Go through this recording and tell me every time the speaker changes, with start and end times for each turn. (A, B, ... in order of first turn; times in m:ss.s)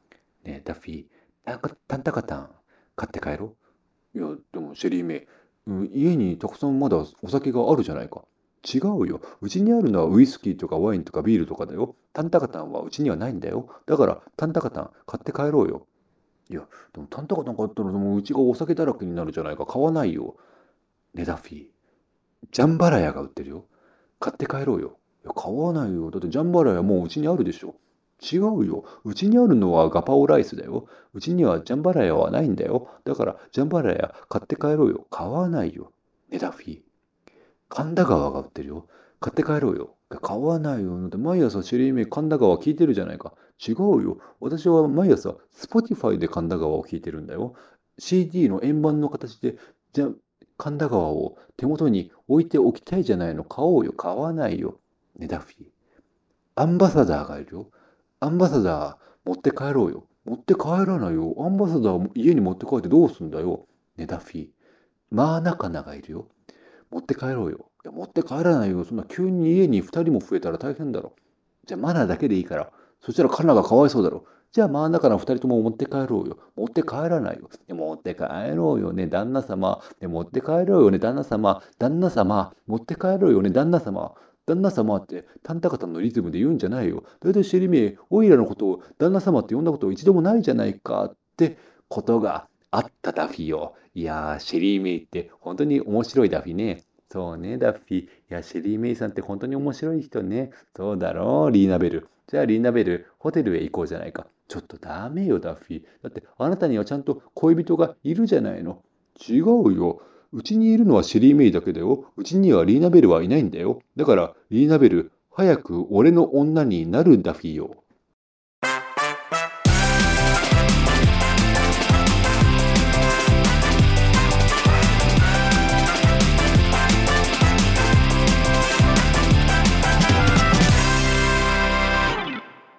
0:00.4-0:03.5 A
0:04.1-0:15.8 A
0:16.5-0:20.4 A
0:21.1-0:21.7 A
0:22.5-0:23.6 A
0:24.2-0:36.8 A
0:37.7-0:55.7 A
0:56.6-0:57.7 A
0:58.2-1:04.5 A
1:05.1-1:06.3 A
1:06.9-1:11.1 A
1:11.6-1:57.8 A